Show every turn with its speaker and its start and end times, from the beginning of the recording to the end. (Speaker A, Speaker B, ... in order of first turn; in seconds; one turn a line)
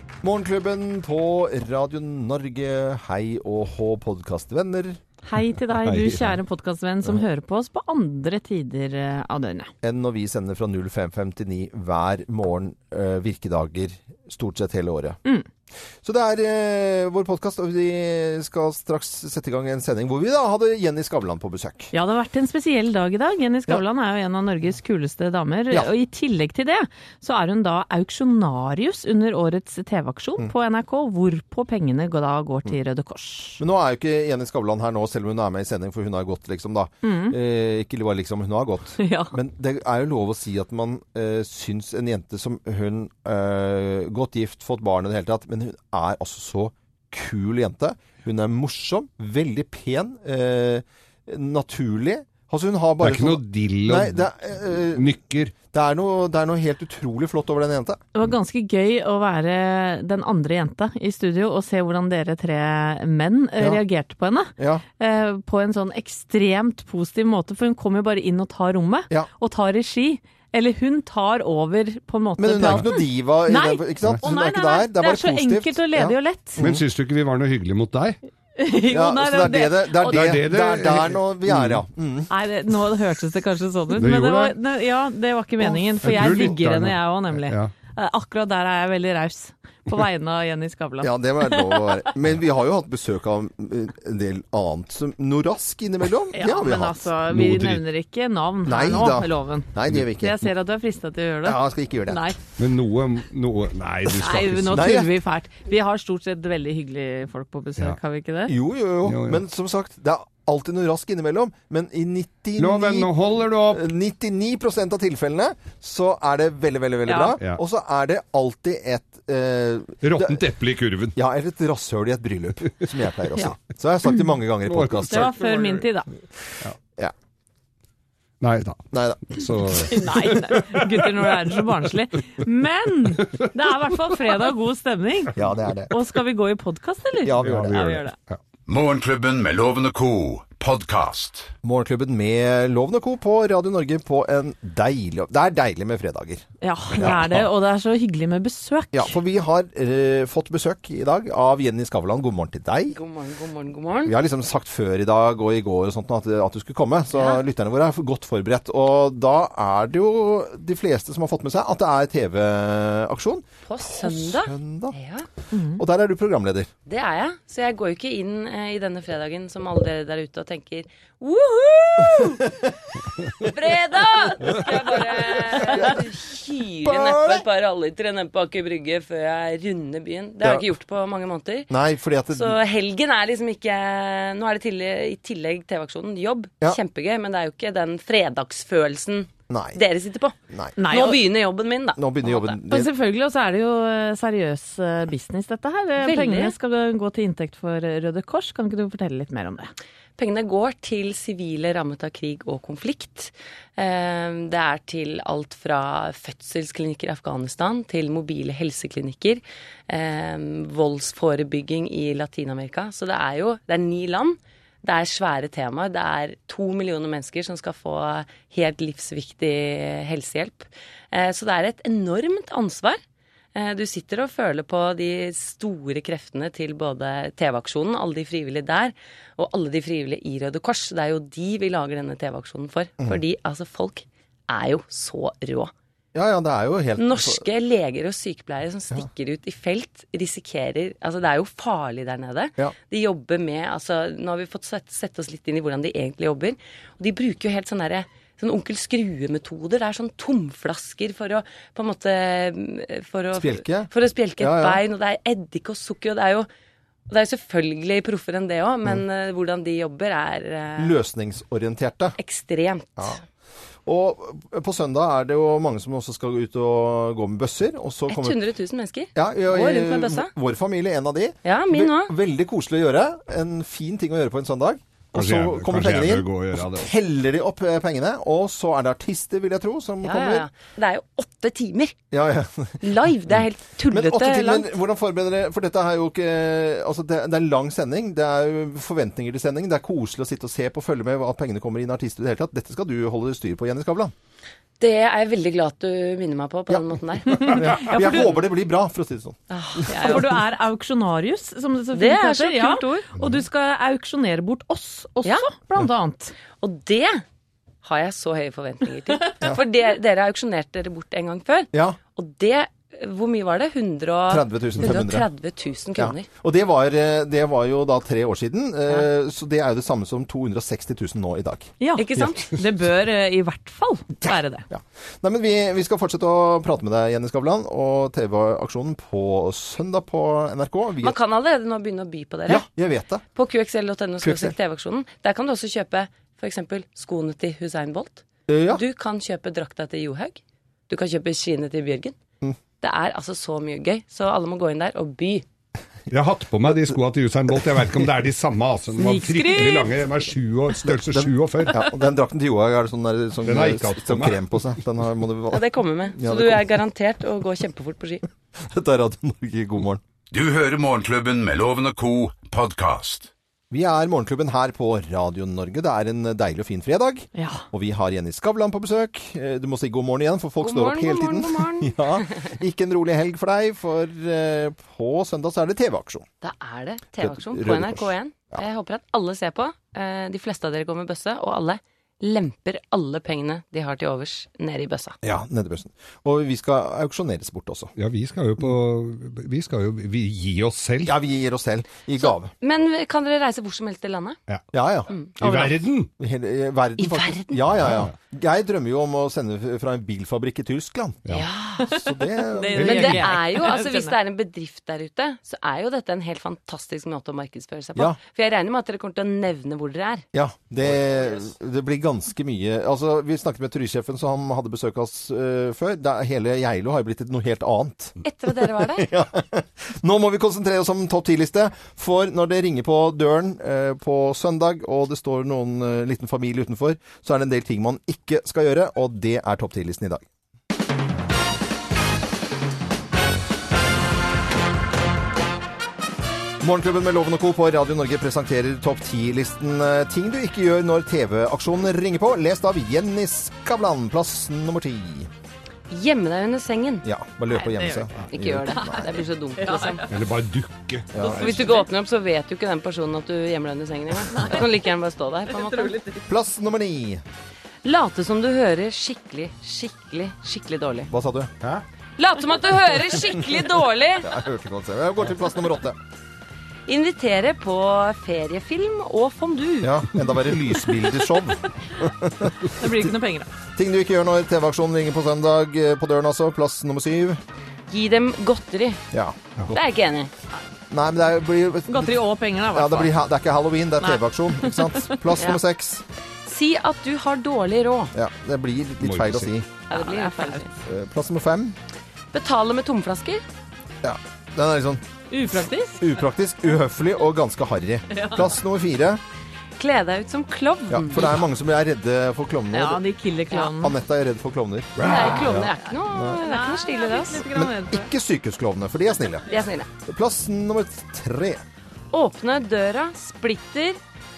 Speaker A: 0.2-5.0
Speaker B: 5.2-9.7
Speaker C: 5.8-6.4
Speaker A: 9.8-15.2
Speaker A: 16.0-21.9
Speaker B: 21.9-33.6
Speaker A: 33.6-55.1
Speaker B: 37.0-37.4
Speaker B: 39.0-39.3
Speaker C: 53.0-54.3
Speaker C: 54.9-55.5
Speaker A: 55.6-58.0
Speaker B: 58.1-76.6
Speaker A: 64.6-64.8
Speaker A: 72.4-76.8
Speaker C: 76.6-78.2
Speaker B: 78.6-80.3
Speaker A: 78.9-82.3
Speaker C: 80.1-81.8
Speaker B: 82.3-92.0
Speaker C: 83.9-84.5
Speaker C: 86.0-87.7
Speaker A: 86.2-86.5
Speaker A: 91.0-97.1
Speaker B: 96.3-102.4
Speaker C: 97.3-97.8
Speaker A: 98.7-100.4
Speaker A: 101.4-102.3
Speaker C: 102.6-104.8
Speaker B: 104.2-108.5
Speaker A: 104.7-105.1
Speaker A: 108.5-113.1
Speaker C: 109.1-109.4
Speaker C: 112.6-113.8
Speaker A: 113.7-120.4
Speaker B: 117.1-117.3
Speaker C: 120.0-121.2
Speaker A: 121.2-125.3
Speaker C: 124.7-125.8
Speaker B: 125.1-126.1
Speaker C: 128.4-131.2
Speaker A: 128.9-129.8
Speaker B: 129.9-135.3
Speaker A: 135.3-135.9
Speaker B: 135.9-138.1
Speaker A: 137.2-137.8
Speaker C: 137.4-138.4
Speaker D: 138.7-141.5
Speaker A: 141.6-146.4
Speaker B: 146.6-149.1
Speaker A: 147.0-147.4
Speaker A: 148.9-153.0
Speaker E: 152.9-154.1
Speaker A: 154.0-164.9
Speaker E: 157.1-157.4
Speaker E: 163.7-165.3
Speaker B: 165.5-165.8
Speaker A: 165.8-166.7
Speaker E: 166.8-172.6
Speaker E: 173.4-181.7
Speaker A: 175.6-176.1
Speaker A: 176.8-177.4
Speaker A: 181.7-182.6
Speaker E: 182.3-192.6
Speaker A: 189.5-189.8
Speaker B: 190.8-191.2
Speaker A: 191.9-192.9
Speaker B: 192.7-199.7
Speaker E: 196.0-196.5
Speaker E: 200.2-223.0
Speaker E: 223.5-235.7
Speaker A: 236.1-237.4
Speaker E: 237.0-256.5
Speaker A: 253.3-254.8
Speaker E: 257.1-260.9
Speaker A: 260.8-262.1
Speaker E: 262.2-263.2
Speaker A: 263.9-268.4
Speaker E: 268.1-270.3
Speaker A: 269.1-280.4
Speaker E: 271.4-272.1
Speaker C: 275.1-276.9
Speaker E: 280.0-281.9
Speaker A: 282.1-282.8
Speaker E: 282.8-284.7
Speaker A: 283.9-294.1
Speaker E: 294.8-298.3
Speaker A: 296.7-300.2
Speaker E: 299.5-300.3
Speaker B: 299.9-306.3
Speaker E: 301.9-302.8
Speaker E: 306.6-307.2
Speaker E: 307.8-316.3
Speaker A: 311.7-312.0
Speaker A: 314.3-315.3
Speaker A: 315.9-322.3
Speaker B: 321.8-324.7
Speaker E: 321.9-322.5
Speaker A: 324.7-331.2
Speaker E: 331.0-332.6
Speaker A: 332.5-333.2
Speaker E: 333.3-342.1
Speaker A: 334.2-334.6
Speaker A: 338.5-338.8
Speaker E: 342.8-345.4
Speaker C: 346.1-351.8
Speaker B: 349.0-350.0
Speaker A: 350.9-356.8
Speaker C: 353.4-354.4
Speaker E: 355.5-358.2
Speaker A: 358.6-360.0
Speaker D: 360.3-363.3
Speaker A: 363.7-376.2
Speaker B: 367.3-367.6
Speaker E: 370.6-372.4
Speaker E: 376.4-385.2
Speaker A: 377.2-378.6
Speaker A: 385.2-387.9
Speaker C: 387.9-391.1
Speaker A: 391.0-392.5
Speaker E: 392.2-394.4
Speaker A: 394.7-401.3
Speaker C: 395.4-396.1
Speaker E: 397.0-397.6
Speaker C: 397.8-398.1
Speaker E: 401.3-401.9
Speaker B: 401.8-404.1
Speaker A: 401.9-403.1
Speaker C: 402.8-403.3
Speaker E: 402.8-410.2
Speaker A: 410.3-430.3
Speaker E: 418.2-419.1
Speaker A: 436.6-445.3
Speaker E: 445.9-447.1
Speaker A: 447.0-449.1
Speaker B: 447.5-448.1
Speaker E: 448.3-450.1
Speaker B: 448.6-450.1
Speaker C: 450.1-451.4
Speaker A: 451.1-451.6
Speaker B: 451.2-451.8
Speaker E: 451.4-456.0
Speaker B: 454.3-454.6
Speaker B: 455.5-456.2
Speaker A: 456.3-457.2
Speaker E: 457.8-461.1
Speaker A: 461.1-461.5
Speaker E: 462.2-464.3
Speaker A: 464.2-466.0
Speaker E: 466.9-470.0
Speaker A: 469.8-473.1
Speaker B: 472.8-473.5
Speaker A: 473.8-477.4
Speaker E: 477.9-479.0
Speaker A: 479.1-479.7
Speaker E: 479.7-480.3
Speaker A: 480.9-486.0
Speaker B: 481.9-483.1
Speaker B: 484.0-485.1
Speaker E: 486.4-488.1
Speaker A: 488.1-489.7
Speaker C: 489.0-489.5
Speaker E: 489.9-490.7
Speaker B: 489.9-490.6
Speaker A: 490.9-491.8
Speaker E: 492.3-493.4
Speaker A: 494.0-495.0
Speaker B: 495.3-496.1
Speaker A: 496.0-499.2
Speaker B: 498.1-498.4
Speaker E: 499.8-501.4
Speaker A: 500.9-503.0
Speaker B: 502.7-503.9
Speaker A: 503.7-506.4
Speaker C: 505.0-505.3
Speaker E: 505.0-507.4
Speaker B: 505.8-508.1
Speaker A: 507.4-509.5
Speaker E: 509.5-509.9
Speaker A: 510.1-511.6
Speaker E: 512.1-514.0